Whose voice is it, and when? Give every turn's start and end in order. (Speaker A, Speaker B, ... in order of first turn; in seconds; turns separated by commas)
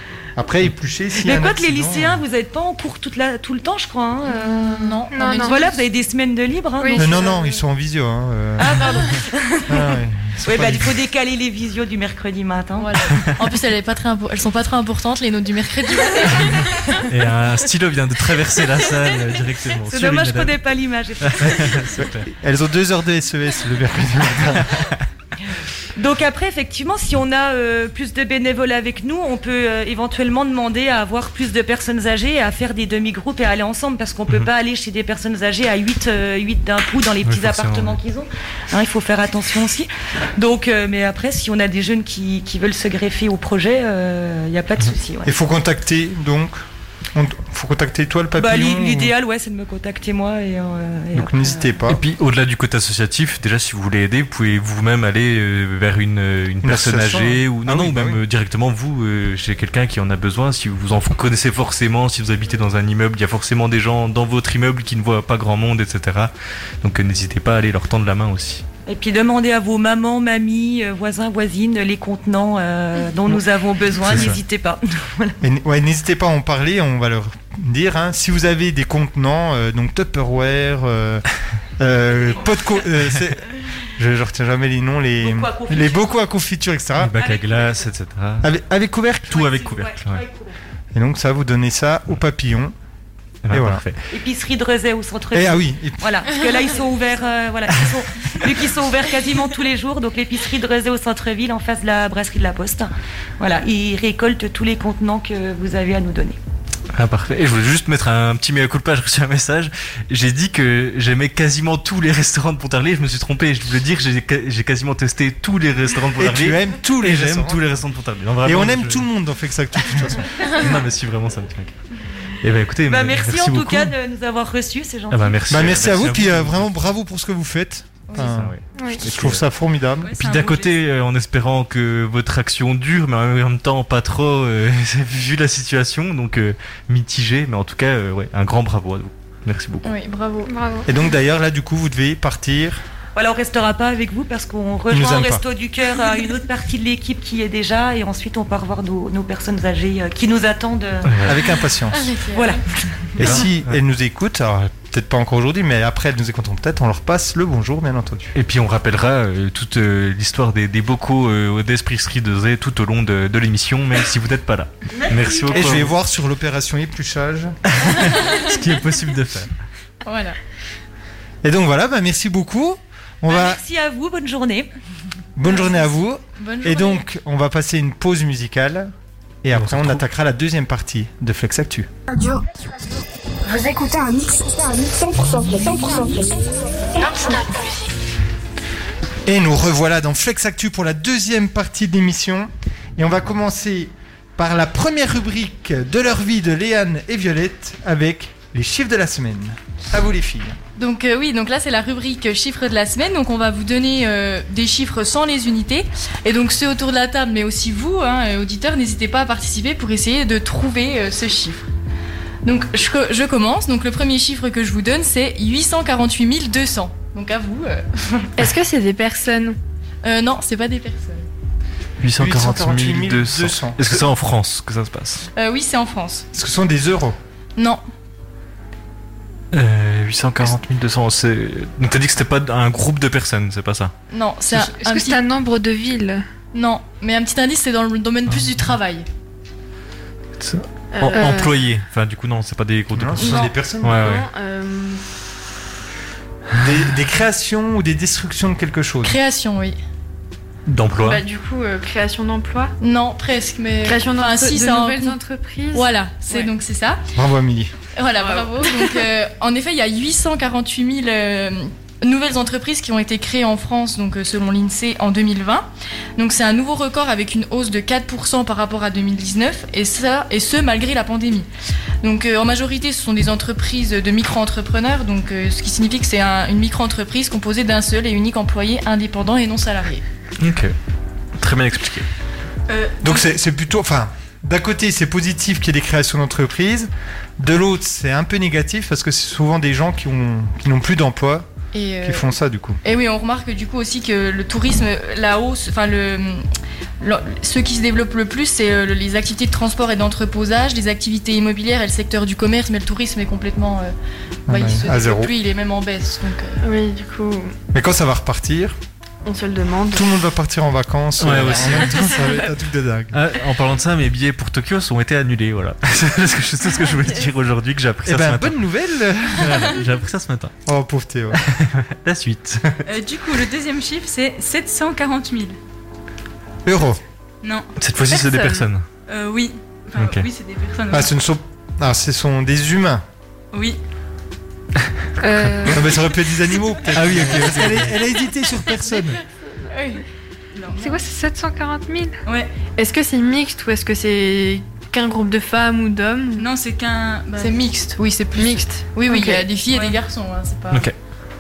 Speaker A: 0.4-2.2, Speaker B: 1.2-7.5, Speaker C: 4.3-5.8, Speaker D: 5.1-5.6, Speaker D: 6.8-7.2, Speaker A: 7.0-9.1, Speaker B: 8.6-13.1, Speaker A: 9.7-10.9, Speaker C: 12.8-17.0, Speaker E: 17.0-20.6, Speaker B: 19.9-21.9, Speaker E: 21.2-22.3, Speaker A: 22.0-24.9, Speaker B: 25.9-45.3, Speaker E: 37.2-38.0, Speaker A: 45.3-46.6, Speaker A: 47.1-49.1, Speaker B: 48.4-51.7, Speaker A: 51.1-52.0, Speaker E: 51.9-68.7, Speaker A: 56.6-58.2, Speaker B: 68.9-75.4, Speaker A: 74.0-74.4, Speaker A: 75.4-81.2, Speaker A: 81.8-87.2, Speaker B: 85.2-86.1, Speaker E: 87.0-88.5, Speaker B: 87.2-87.9, Speaker A: 88.4-89.5, Speaker E: 89.3-90.2, Speaker B: 89.3-90.5, Speaker A: 90.9-92.7, Speaker E: 93.5-94.0, Speaker A: 93.5-93.8, Speaker B: 94.1-106.4, Speaker A: 95.3-96.3, Speaker E: 106.9-119.1, Speaker A: 116.2-117.7, Speaker A: 118.4-120.6, Speaker E: 120.4-121.7, Speaker E: 122.4-123.9, Speaker B: 122.9-125.4, Speaker E: 125.1-126.7, Speaker A: 125.5-130.2, Speaker C: 128.1-128.3, Speaker E: 128.2-129.4, Speaker D: 128.7-129.0, Speaker F: 130.0-130.7, Speaker E: 130.2-139.9, Speaker C: 139.8-140.6, Speaker D: 140.5-140.9, Speaker A: 140.9-142.8, Speaker B: 143.2-151.1, Speaker A: 144.9-145.4, Speaker E: 151.1-151.4, Speaker A: 151.2-152.1, Speaker C: 151.9-152.6, Speaker B: 152.3-152.6, Speaker A: 153.2-158.3, Speaker E: 153.2-153.7, Speaker E: 158.3-165.9, Speaker B: 165.0-165.7, Speaker A: 165.5-167.6, Speaker E: 167.7-169.5, Speaker C: 168.2-168.5, Speaker C: 170.0-170.4, Speaker A: 171.4-173.6, Speaker B: 173.3-174.7, Speaker A: 175.4-178.9, Speaker C: 175.4-177.0, Speaker A: 179.4-181.9, Speaker E: 179.5-180.0, Speaker G: 183.5-186.3, Speaker A: 189.3-200.6, Speaker C: 200.8-211.7, Speaker C: 212.4-218.5, Speaker H: 218.4-219.6, Speaker C: 220.0-221.3, Speaker E: 222.0-225.3, Speaker A: 222.2-224.1, Speaker C: 225.4-226.3, Speaker A: 226.3-227.2, Speaker C: 227.6-227.8, Speaker E: 229.5-233.9, Speaker C: 234.1-235.2, Speaker D: 234.6-236.2, Speaker C: 236.5-239.1, Speaker E: 238.3-238.7, Speaker E: 240.4-244.2, Speaker H: 240.9-241.6, Speaker D: 241.1-241.5, Speaker A: 242.9-244.1, Speaker C: 243.2-243.6, Speaker H: 243.9-245.0, Speaker A: 246.6-249.2, Speaker C: 249.0-249.8, Speaker E: 250.7-251.2, Speaker H: 251.0-252.7, Speaker C: 252.8-255.2, Speaker H: 253.8-256.5, Speaker C: 255.7-257.0, Speaker A: 257.1-257.7, Speaker C: 257.9-271.5, Speaker H: 258.2-259.0, Speaker C: 272.0-280.0, Speaker E: 280.4-280.8, Speaker E: 281.4-282.1, Speaker F: 282.7-283.3, Speaker A: 283.0-291.5, Speaker C: 291.7-292.3, Speaker A: 292.0-292.8, Speaker C: 292.8-296.5, Speaker C: 297.0-303.9, Speaker A: 304.5-305.3, Speaker C: 304.5-306.6, Speaker H: 306.6-307.6, Speaker A: 307.7-308.8, Speaker H: 309.2-310.2, Speaker A: 309.9-313.2, Speaker E: 311.2-312.2, Speaker H: 311.7-312.5, Speaker E: 313.1-318.6, Speaker H: 316.8-317.2, Speaker A: 318.1-319.8, Speaker E: 319.4-320.5, Speaker A: 320.7-321.4, Speaker E: 321.3-322.8, Speaker F: 322.9-325.6, Speaker A: 326.6-327.0, Speaker F: 327.4-327.7, Speaker E: 327.8-328.9, Speaker H: 328.1-328.6, Speaker F: 329.1-331.1, Speaker E: 330.0-330.3, Speaker A: 330.9-333.0, Speaker F: 333.5-333.8, Speaker D: 335.2-335.9, Speaker A: 335.7-339.2, Speaker E: 336.9-338.0, Speaker C: 339.7-340.0, Speaker D: 340.8-342.2, Speaker F: 342.2-342.5, Speaker H: 342.8-346.5, Speaker F: 346.4-347.6, Speaker C: 347.4-350.9, Speaker H: 348.4-349.5, Speaker F: 349.7-350.0